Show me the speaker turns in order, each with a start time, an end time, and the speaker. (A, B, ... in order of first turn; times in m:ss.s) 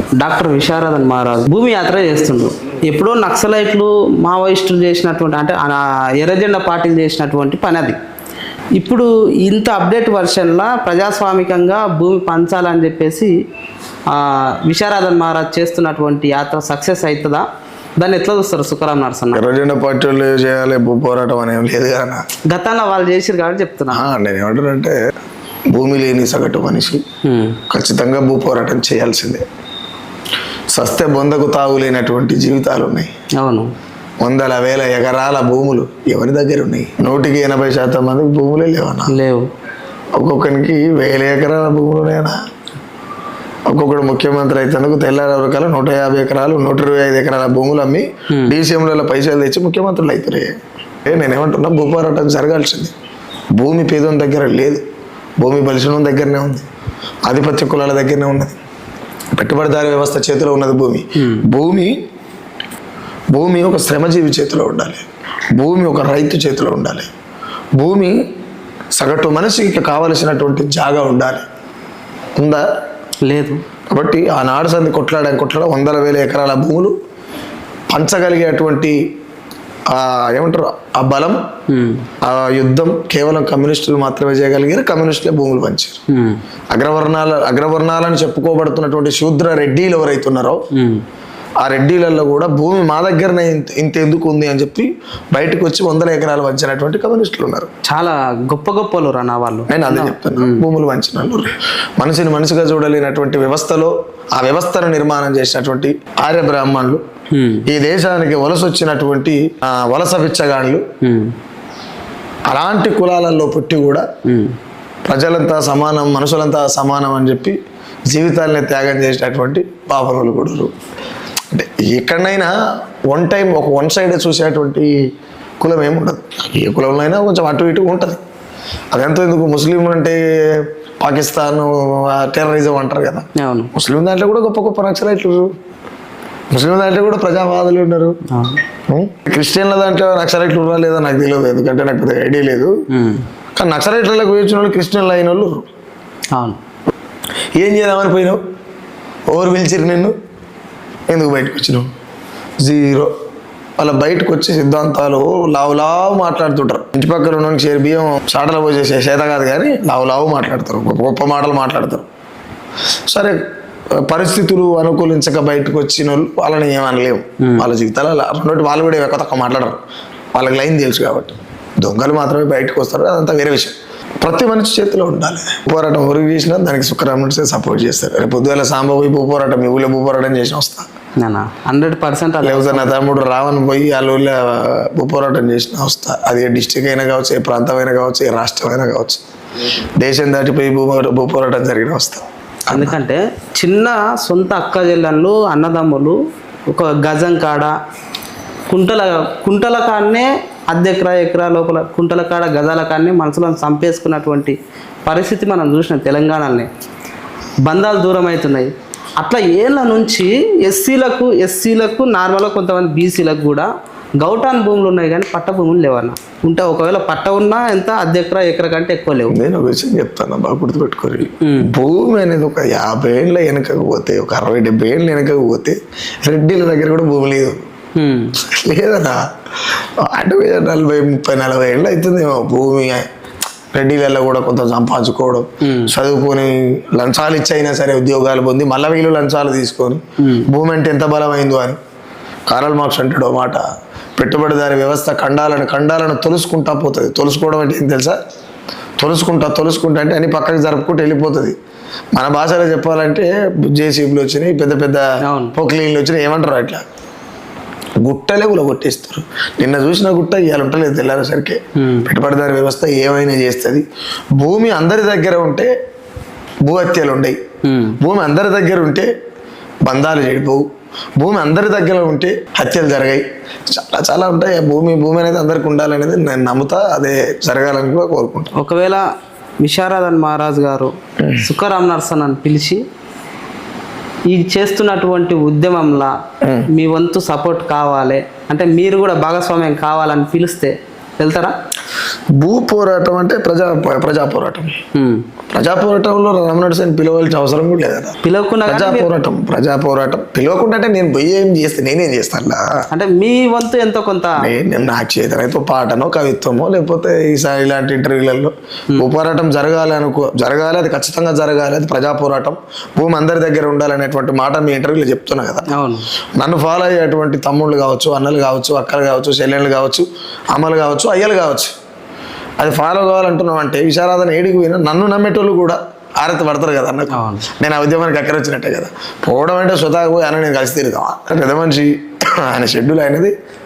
0:00.2-0:08.0 A
0:08.8-0:13.3 A
0:14.1-0:17.5 A
0:18.0-0:19.4 A
0:19.3-0:22.2 B
0:22.5-0:24.0 A
0:23.9-0:25.0 B
0:25.7-0:27.0 B
0:27.2-0:27.6 A
0:27.7-0:29.4 B
0:30.7-0:33.1 B
0:33.4-0:33.7 A
0:34.2-0:39.1 B
0:39.1-0:39.5 A
0:40.2-0:42.4 B
0:43.7-0:50.5 B
0:48.3-0:48.6 A
0:51.1-0:52.9 B
0:53.6-0:54.8 B
0:55.4-0:56.7 B
0:57.3-0:58.6 B
0:59.3-1:02.0 B
1:01.2-1:01.4 A
1:03.3-1:05.0 B
1:05.6-1:07.1 B
1:07.8-1:08.2 B
1:09.0-1:11.4 B
1:12.4-1:12.6 B
1:13.2-1:13.6 A
1:13.9-1:16.9 B
1:17.9-1:19.0 B
1:19.9-1:21.4 B
1:21.7-1:22.0 A
1:22.2-1:26.0 B
1:26.1-1:26.4 A
1:26.7-1:30.6 B
1:30.7-1:31.0 A
1:31.6-1:37.7 B
1:37.9-1:40.6 A
1:39.7-1:47.0 B
1:47.3-1:47.6 A
1:47.7-1:50.8 B
1:51.0-1:51.3 A
1:52.5-1:54.1 B
1:54.2-1:54.6 A
1:55.0-1:57.6 B
1:58.1-2:00.7 B
2:01.5-2:02.5 B
2:03.1-2:05.0 B
2:05.6-2:08.2 B
2:08.9-2:15.5 B
2:13.4-2:13.7 A
2:16.5-2:18.2 B
2:18.3-2:18.6 A
2:18.9-2:22.7 B
2:22.9-2:23.2 A
2:23.6-2:25.7 B
2:26.3-2:26.6 A
2:27.6-2:28.4 B
2:29.3-2:30.1 B
2:31.1-2:31.9 B
2:32.6-2:33.1 B
2:33.8-2:42.1 B
2:43.1-2:43.4 B
2:43.9-2:49.8 B
2:47.4-2:47.7 A
2:50.3-3:00.9 B
3:01.2-3:02.9 A
3:02.4-3:09.2 B
3:09.8-3:13.0 B
3:12.7-3:17.8 A
3:18.7-3:26.7 A
3:27.6-3:39.4 A
3:39.3-3:47.6 B
3:41.4-3:41.7 A
3:48.0-3:48.4 A
3:48.4-3:49.2 B
3:49.7-3:53.1 B
3:53.7-4:01.8 B
3:55.6-3:55.9 A
4:00.2-4:00.5 A
4:02.5-4:03.6 B
4:04.2-4:08.2 B
4:09.0-4:11.6 B
4:12.1-4:16.8 B
4:15.2-4:15.6 A
4:18.0-4:23.8 B
4:21.8-4:22.1 A
4:24.4-4:25.7 B
4:26.6-4:27.4 B
4:27.6-4:28.0 A
4:28.0-4:29.1 B
4:29.8-4:30.7 B
4:31.2-4:38.5 B
4:38.6-4:39.1 A
4:39.6-4:42.8 A
4:41.2-4:41.4 B
4:44.3-4:46.1 A
4:46.4-4:46.7 B
4:46.7-4:51.5 A
4:52.4-4:54.7 B
4:55.0-4:55.2 A
4:55.5-5:02.6 B
4:58.2-4:59.1 A
5:02.9-5:04.5 A
5:04.4-5:15.7 B
5:15.7-5:16.1 A
5:16.4-5:21.7 B
5:22.6-5:33.3 B
5:27.1-5:27.4 A